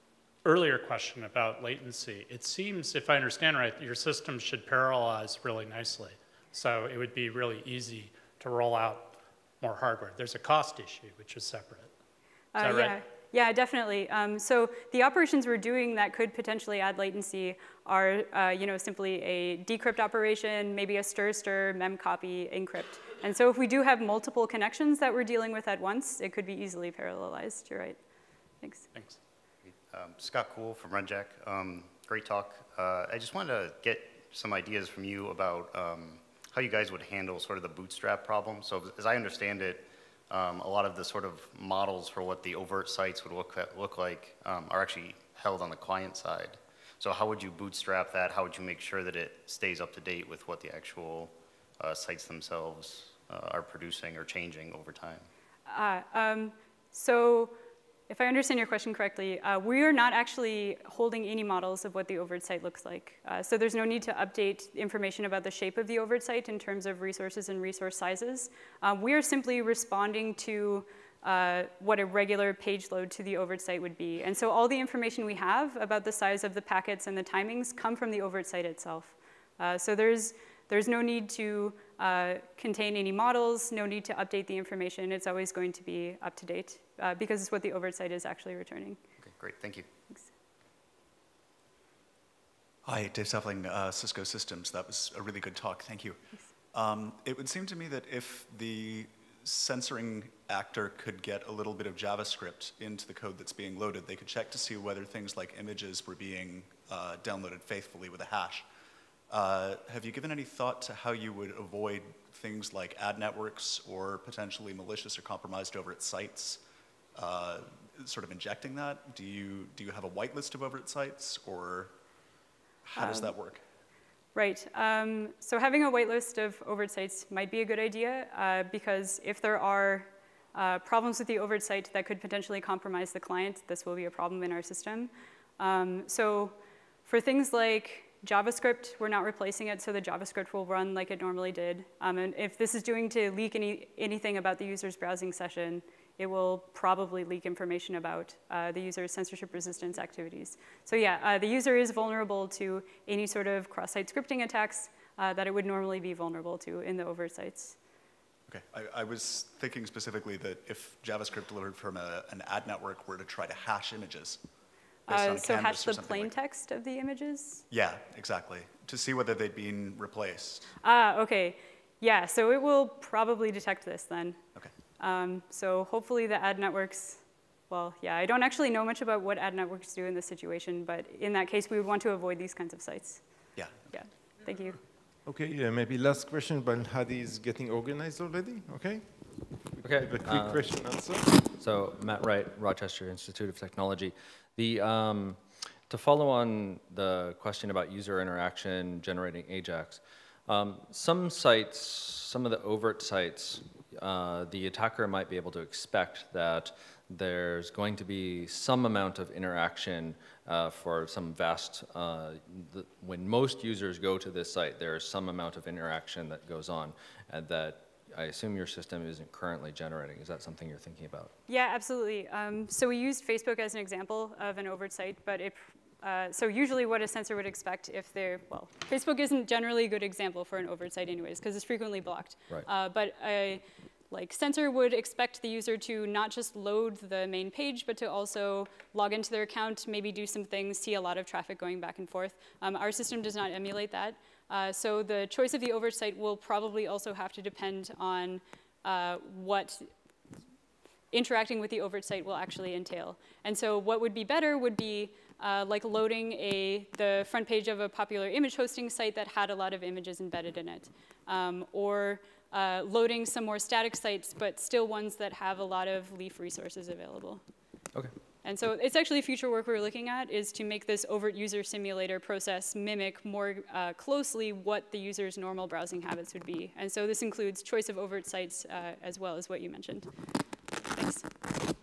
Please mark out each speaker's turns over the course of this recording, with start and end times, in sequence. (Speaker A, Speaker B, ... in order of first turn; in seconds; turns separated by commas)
Speaker A: 0.4-11.9, Speaker B: 12.5-28.0, Speaker A: 12.6-13.0, Speaker B: 28.6-28.9, Speaker C: 29.6-55.2, Speaker B: 55.7-57.6, Speaker B: 58.1-89.0, Speaker C: 89.2-89.9, Speaker D: 92.8-96.2, Speaker D: 96.7-108.7, Speaker D: 109.3-116.6, Speaker D: 117.1-121.9, Speaker D: 122.8-123.6, Speaker B: 123.0-123.3, Speaker B: 124.3-136.5, Speaker B: 137.1-157.8, Speaker D: 158.5-164.4, Speaker D: 165.1-166.3, Speaker B: 165.1-167.6, Speaker D: 167.7-170.7, Speaker B: 170.8-174.4, Speaker B: 175.0-183.2, Speaker D: 183.6-183.9, Speaker B: 183.9-184.8, Speaker E: 185.2-191.3, Speaker F: 189.8-190.7, Speaker F: 191.3-221.3, Speaker B: 221.5-249.9, Speaker B: 251.1-267.4, Speaker B: 268.4-280.1, Speaker B: 280.9-281.2